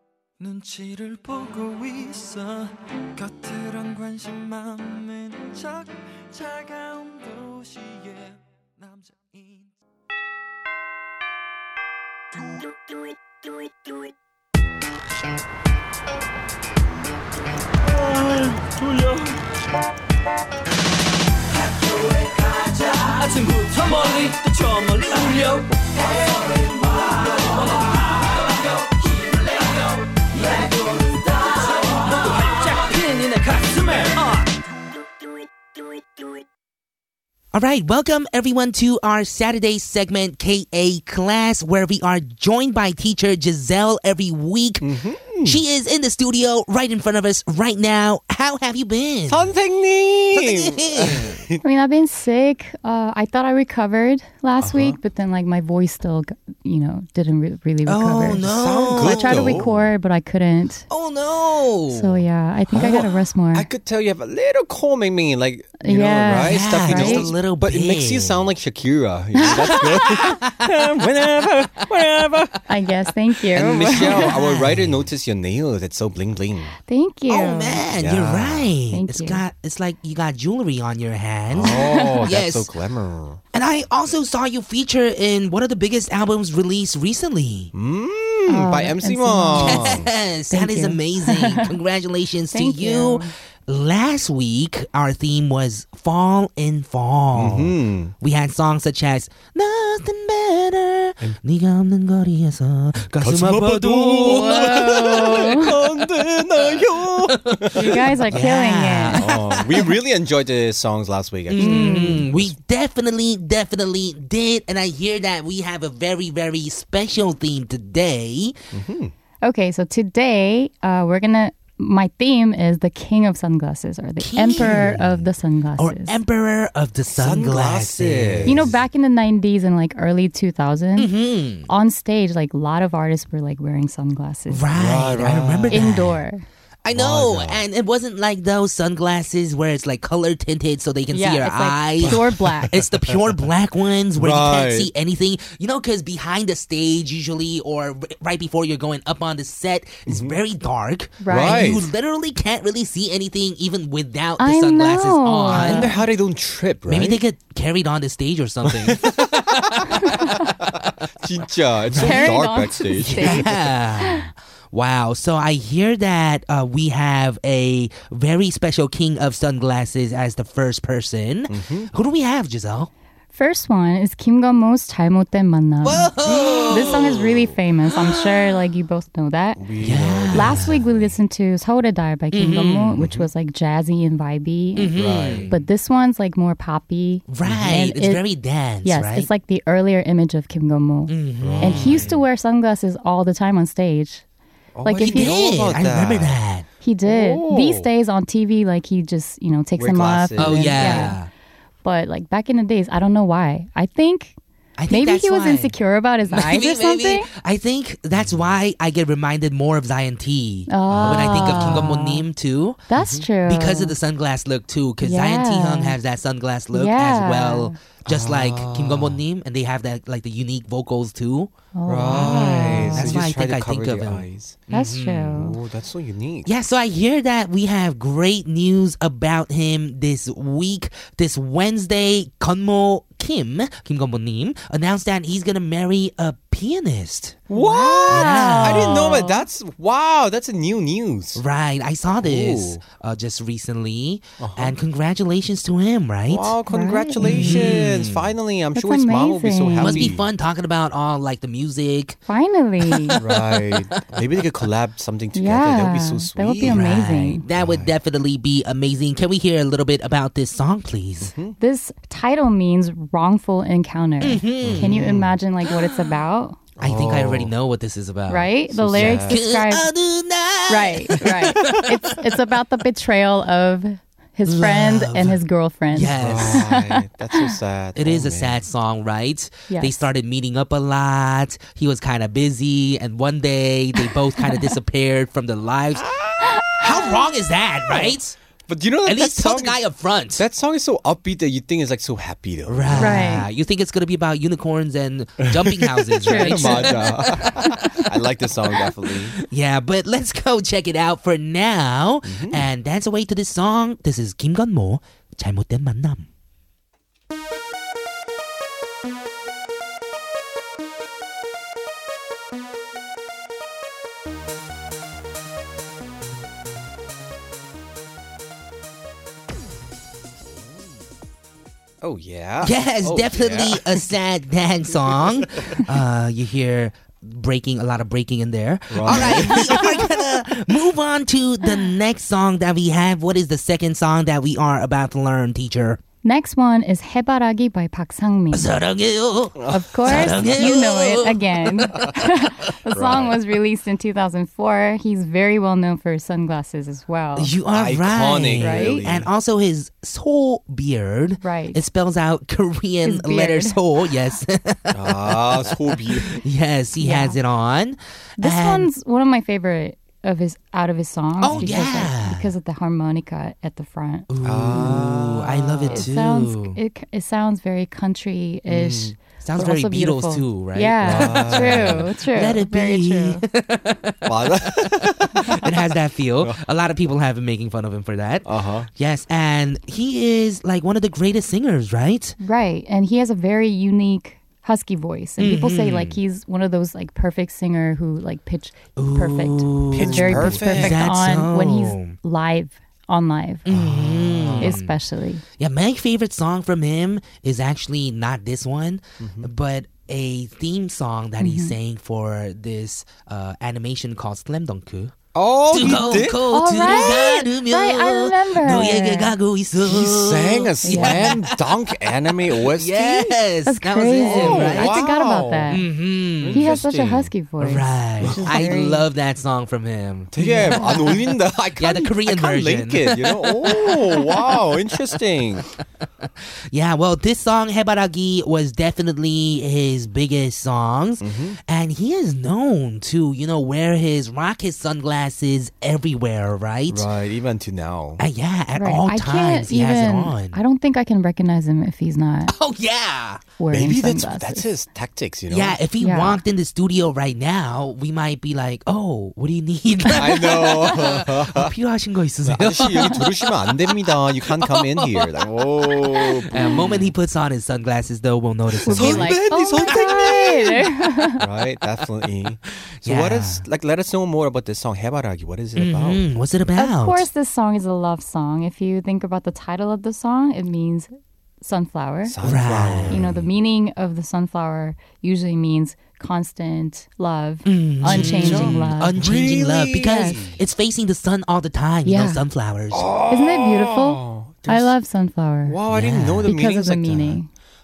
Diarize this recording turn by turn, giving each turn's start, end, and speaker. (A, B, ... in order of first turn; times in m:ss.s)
0:00.4-0:09.7 A
0:18.0-0:19.3 A
0:21.9-0:28.5 A
0:29.2-0:29.7 A
0:30.2-0:34.5 A
0:37.5-0:49.5 B
0:44.8-0:45.6 C
0:49.3-0:51.6 C
0:50.3-0:51.4 B
0:51.6-1:00.9 D
0:54.6-0:55.0 C
0:57.9-0:59.7 B
0:58.4-0:59.9 C
1:00.9-1:02.2 B
1:01.9-1:03.7 D
1:02.7-1:12.6 C
1:05.8-1:07.3 D
1:06.4-1:08.5 B
1:09.4-1:10.7 B
1:12.7-1:14.3 D
1:13.5-1:16.8 C
1:13.9-1:15.1 B
1:16.9-1:17.8 D
1:17.3-1:22.7 B
1:17.9-1:18.7 C
1:18.9-1:19.4 D
1:21.5-1:23.4 C
1:21.8-1:22.1 D
1:23.5-1:27.7 B
1:27.7-1:30.1 C
1:28.5-1:30.0 D
1:29.6-1:45.7 B
1:30.5-1:31.8 D
1:32.5-1:33.3 D
1:37.4-1:38.1 C
1:43.2-1:48.4 C
1:44.2-1:45.9 D
1:46.8-1:49.9 B
1:47.7-1:49.3 D
1:49.1-1:52.6 C
1:51.5-1:58.6 B
1:51.6-1:52.3 D
1:58.7-1:59.1 C
1:59.4-2:06.2 D
2:04.2-2:05.0 B
2:04.6-2:05.3 C
2:05.8-2:08.7 B
2:07.1-2:08.8 C
2:08.5-2:11.2 D
2:11.0-2:11.7 B
2:11.7-2:14.7 D
2:14.5-2:16.2 B
2:14.7-2:16.1 C
2:15.7-2:16.4 D
2:16.8-2:35.9 B
2:16.9-2:17.6 C
2:21.1-2:22.8 D
2:22.0-2:23.3 C
2:24.2-2:24.9 C
2:30.1-2:30.4 C
2:31.2-2:31.7 D
2:31.3-2:31.9 C
2:34.4-2:36.0 D
2:35.5-2:37.2 C
2:36.9-2:40.3 B
2:38.6-2:43.5 C
2:41.9-2:42.4 B
2:42.0-2:44.3 D
2:43.0-2:52.9 B
2:51.5-2:51.9 C
2:53.3-2:59.7 D
2:55.8-2:57.1 B
2:56.2-2:57.6 C
2:57.9-2:58.6 B
2:59.6-3:01.1 C
2:59.8-3:00.8 B
3:00.3-3:08.2 D
3:02.3-3:03.1 B
3:03.0-3:03.3 C
3:04.8-3:05.7 B
3:04.9-3:05.5 C
3:07.3-3:09.3 B
3:08.8-3:14.2 D
3:11.1-3:12.1 B
3:11.4-3:12.2 C
3:14.8-3:16.4 C
3:14.8-3:15.7 D
3:15.1-3:16.7 B
3:16.8-3:21.2 D
3:17.0-3:17.9 C
3:19.8-3:21.1 C
3:20.4-3:21.3 B
3:21.8-3:24.4 D
3:24.8-3:25.8 B
3:24.9-3:27.3 D
3:26.3-3:32.8 B
3:28.1-3:28.6 C
3:30.7-3:32.2 D
3:30.9-3:31.9 C
3:32.9-3:34.0 D
3:33.0-3:33.3 C
3:33.5-3:41.5 B
3:35.0-3:36.0 D
3:36.7-3:37.8 D
3:38.0-3:39.2 C
3:41.8-3:43.2 D
3:41.9-3:44.6 C
3:42.1-3:45.5 B
3:44.7-3:45.6 D
3:45.4-3:46.5 C
3:46.5-3:57.4 B
3:57.5-4:01.4 C
3:57.5-3:59.4 D
3:58.1-3:59.1 B
4:01.4-4:06.6 B
4:02.2-4:02.8 C
4:04.4-4:04.8 C
4:06.3-4:10.3 C
4:06.7-4:07.8 D
4:07.2-4:08.3 B
4:08.7-4:10.1 D
4:09.8-4:12.2 B
4:12.3-4:13.2 D
4:12.8-4:14.2 B
4:13.2-4:17.0 C
4:15.4-4:17.4 D
4:16.6-4:21.3 B
4:17.5-4:17.9 C
4:21.3-4:21.6 C
4:21.6-4:26.6 D
4:24.2-4:25.0 B
4:24.6-4:25.3 C
4:25.6-4:26.2 B
4:26.8-4:27.5 C
4:26.8-4:32.2 B
4:28.3-4:29.9 D
4:28.7-4:29.4 C
4:30.7-4:37.6 D
4:34.5-4:35.4 B
4:35.9-4:36.7 B
4:36.2-4:38.6 C
4:38.0-4:46.1 B
4:39.7-4:40.0 D
4:44.4-4:44.7 D
4:46.1-4:46.5 C
4:46.6-4:47.1 D
4:46.7-4:48.4 B
4:47.9-4:48.2 C
4:48.7-4:49.8 C
4:49.1-4:50.4 B
4:50.3-4:53.4 C
4:52.7-4:58.2 B
4:53.0-4:53.5 D
4:55.4-4:59.4 C
4:56.2-4:57.1 D
4:58.7-5:06.3 B
5:02.2-5:02.7 C
5:22.0-5:24.1 C
5:22.6-5:36.0 B
5:28.9-5:30.1 C
5:36.2-5:38.7 D
5:38.5-5:42.1 B
5:39.6-5:40.8 C
5:39.7-5:47.5 D
5:42.9-5:43.4 C
5:47.4-5:58.9 B
5:47.7-5:49.3 C
5:48.6-5:49.0 D
5:51.4-5:51.8 D
5:53.0-5:53.8 D
5:54.9-5:56.4 C
5:57.0-5:57.4 D
5:58.4-6:05.0 D
6:01.4-6:02.5 B
6:01.5-6:01.9 C
6:04.3-6:06.8 B
6:04.4-6:06.1 C
6:05.9-6:13.3 D
6:08.7-6:09.1 C
6:09.4-6:22.4 B
6:11.0-6:12.1 C
6:14.2-6:15.8 C
6:18.4-6:18.9 C
6:22.4-6:33.7 D
6:25.4-6:26.2 B
6:29.0-6:32.2 B
6:29.9-6:31.1 C
6:33.7-6:35.0 B
6:33.7-6:34.8 C
6:34.6-6:35.4 D
6:35.6-6:45.1 B
6:39.2-6:39.5 C
6:41.4-6:41.8 D
6:45.3-6:46.5 C
6:45.7-6:55.0 B
6:45.8-6:49.4 D
6:49.8-6:53.4 C
6:50.8-6:51.4 D
6:53.7-6:55.9 D
6:54.2-6:55.8 C
6:55.7-6:56.8 B
6:56.4-6:57.3 C
6:56.5-6:59.1 D
6:57.6-7:01.2 B
6:58.2-6:58.7 C
7:00.3-7:05.7 C
7:00.4-7:01.2 D
7:01.8-7:05.0 B
7:06.7-7:17.1 B
7:11.2-7:11.6 C
7:16.9-7:18.2 C
7:18.2-7:20.6 B
7:18.8-7:22.5 D
7:22.5-7:23.4 B
7:23.6-7:24.7 D
7:23.7-7:25.8 C
7:25.5-7:35.3 B
7:26.0-7:26.4 D
7:30.1-7:31.7 C
7:32.4-7:37.1 C
7:35.9-7:40.8 B
7:38.7-7:40.6 C
7:38.8-7:41.5 D
7:41.4-7:46.2 C
7:43.0-7:43.6 B
7:45.8-7:47.3 B
7:46.8-7:51.1 D
7:51.6-7:52.4 D
7:52.3-7:53.5 C
7:52.4-7:53.2 B
7:53.0-7:59.2 D
7:57.6-8:03.1 B
7:58.0-8:00.6 C
8:00.0-8:00.4 D
8:02.1-8:02.4 D
8:02.9-8:04.9 C
8:03.3-8:05.8 D
8:05.6-8:07.4 C
8:05.9-8:06.5 B
8:06.4-8:07.5 D